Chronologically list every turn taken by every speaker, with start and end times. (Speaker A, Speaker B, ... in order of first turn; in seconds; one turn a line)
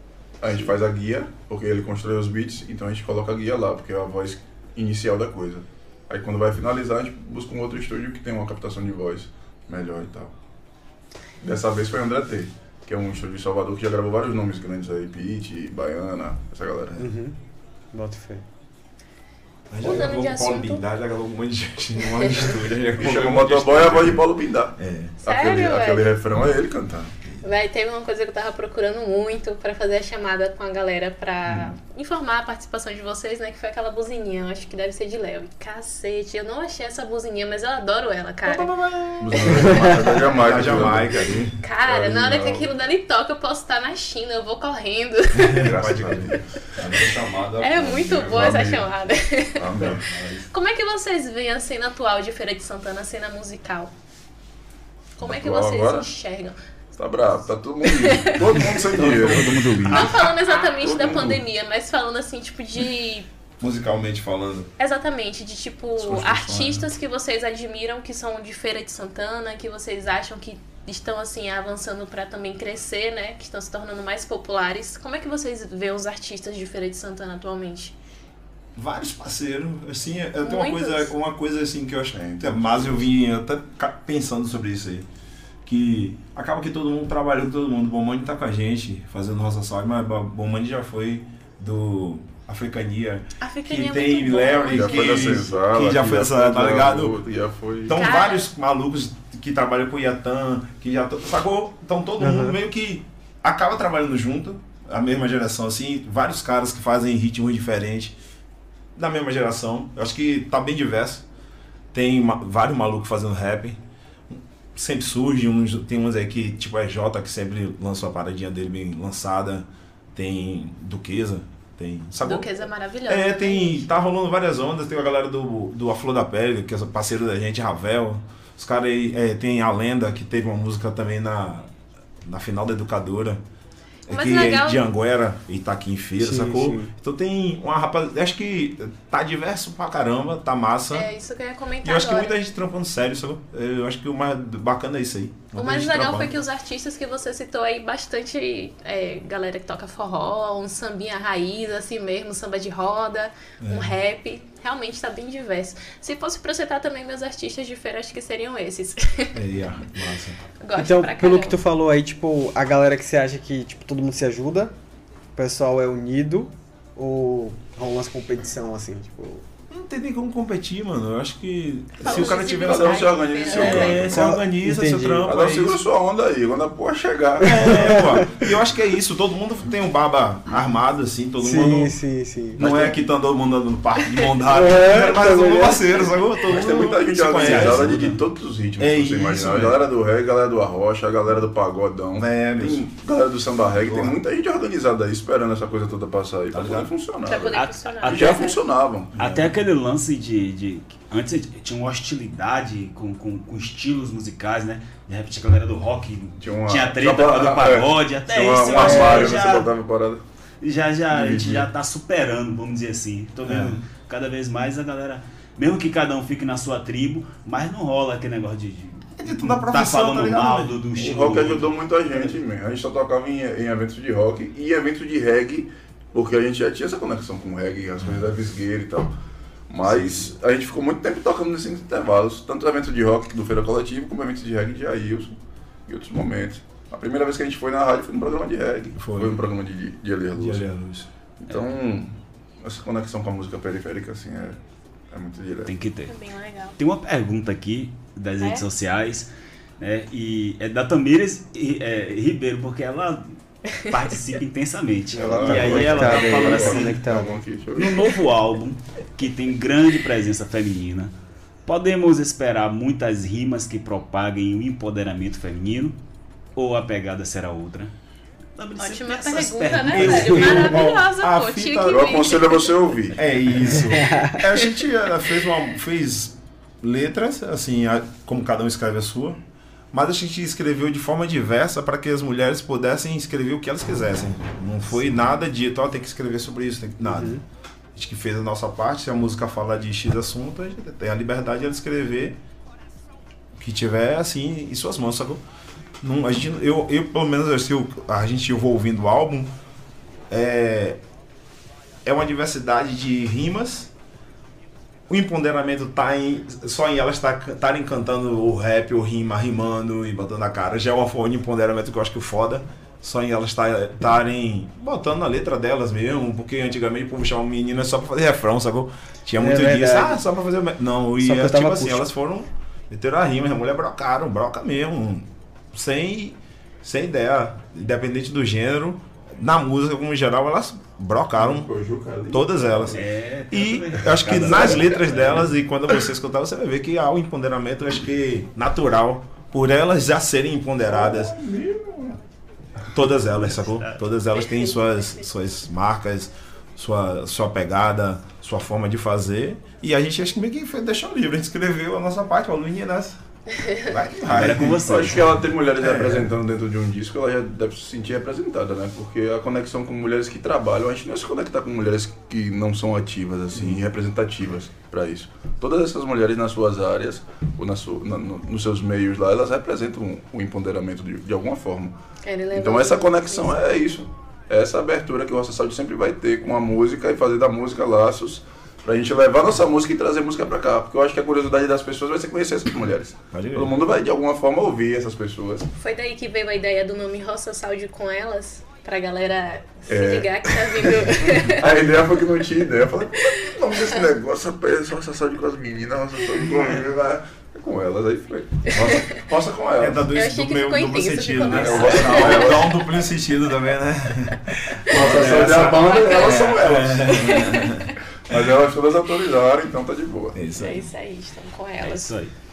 Speaker A: 0.4-10.3
Speaker A: 11.4-17.0
Speaker B: 17.0-17.3
Speaker B: 17.9-18.4
Speaker C: 19.7-24.2
Speaker D: 19.8-20.8
Speaker A: 23.0-27.1
Speaker C: 24.8-25.1
Speaker D: 25.2-26.1
Speaker D: 27.4-38.7
Speaker C: 38.4-41.5
Speaker A: 39.2-42.7
Speaker D: 41.6-45.7
Speaker C: 45.3-48.7
Speaker A: 45.6-46.8
Speaker D: 47.6-49.9
Speaker A: 48.3-48.9
Speaker A: 49.6-50.0
Speaker C: 49.8-50.5
Speaker D: 50.5-53.9
Speaker D: 55.2-56.5
Speaker A: 55.2-56.1
Speaker A: 56.9-61.4
Speaker D: 57.8-58.7
Speaker C: 58.9-60.3
Speaker D: 59.9-63.3
Speaker C: 63.6-64.7
Speaker D: 64.8-77.9
Speaker C: 66.0-66.9
Speaker C: 78.8-85.1
Speaker D: 80.4-81.1
Speaker A: 82.1-83.0
Speaker C: 85.7-97.1
Speaker D: 93.4-95.3
Speaker A: 94.7-98.0
Speaker C: 97.9-108.2
Speaker D: 97.9-98.5
Speaker B: 102.2-102.5
Speaker C: 108.9-111.2
Speaker C: 111.9-131.7
Speaker D: 122.2-123.8
Speaker C: 132.2-133.4
Speaker D: 134.1-134.8
Speaker C: 134.1-141.1
Speaker B: 136.2-136.9
Speaker D: 140.9-142.3
Speaker C: 141.8-146.3
Speaker D: 145.6-159.3
Speaker C: 153.6-154.0
Speaker C: 159.3-160.4
Speaker D: 160.6-161.6
Speaker B: 160.7-164.7
Speaker B: 165.3-169.4
Speaker C: 169.7-175.8
Speaker D: 172.0-174.1
Speaker A: 172.0-174.3
Speaker B: 174.0-175.3
Speaker A: 175.2-178.0
Speaker C: 177.4-182.0
Speaker B: 177.4-178.2
Speaker B: 181.4-182.6
Speaker C: 182.6-188.1
Speaker A: 182.6-183.0
Speaker B: 184.5-185.9
Speaker A: 186.5-199.1
Speaker E: 187.4-188.2
Speaker C: 188.8-189.8
Speaker C: 192.2-192.8
Speaker C: 193.7-194.2
Speaker C: 196.5-196.9
Speaker D: 197.2-198.6
Speaker E: 197.3-198.5
Speaker C: 199.1-199.5
Speaker E: 199.2-209.7
Speaker A: 206.4-210.2
Speaker B: 208.7-209.3
Speaker E: 210.6-222.3
Speaker A: 211.1-211.7
Speaker C: 213.4-213.8
Speaker C: 219.2-220.7
Speaker A: 220.9-229.1
Speaker A: 229.7-235.3
Speaker C: 229.8-230.3
Speaker A: 235.9-240.6
Speaker C: 238.9-239.5
Speaker C: 240.3-241.1
Speaker A: 241.4-244.6
Speaker A: 245.1-245.7
Speaker E: 245.7-246.1
Speaker D: 246.1-246.7
Speaker E: 246.8-257.0
Speaker D: 248.4-248.6
Speaker A: 255.1-258.1
Speaker C: 255.2-256.1
Speaker B: 255.3-257.3
Speaker E: 257.8-261.1
Speaker E: 261.7-265.9
Speaker E: 266.6-267.9
Speaker E: 268.6-270.9
Speaker D: 268.8-272.7
Speaker C: 269.9-272.2
Speaker A: 271.9-273.2
Speaker C: 273.1-279.4
Speaker B: 274.0-274.3
Speaker C: 279.9-287.4
Speaker B: 287.1-287.4
Speaker C: 287.9-292.4
Speaker C: 293.6-295.4
Speaker C: 296.0-299.5
Speaker C: 300.3-301.0
Speaker C: 302.0-303.9
Speaker C: 305.1-331.7
Speaker B: 319.4-320.2
Speaker B: 321.2-322.1
Speaker A: 331.4-333.0
Speaker C: 332.3-341.3
Speaker E: 332.9-335.5
Speaker A: 340.9-342.2
Speaker C: 342.9-353.2
Speaker D: 344.4-345.2
Speaker D: 353.5-353.9
Speaker C: 353.8-355.2
Speaker E: 354.2-355.4
Speaker A: 354.4-371.9
Speaker C: 355.8-356.3
Speaker C: 363.5-363.8
Speaker D: 372.2-373.7
Speaker A: 372.5-385.7
Speaker C: 383.3-383.8
Speaker D: 385.8-391.7
Speaker A: 389.9-400.1
Speaker D: 398.7-399.2
Speaker C: 399.8-407.9
Speaker D: 400.1-402.6
Speaker A: 401.4-402.7
Speaker D: 404.9-408.0
Speaker A: 404.9-407.4
Speaker A: 408.3-410.4
Speaker C: 410.3-410.9
Speaker D: 410.6-412.1
Speaker E: 411.8-412.3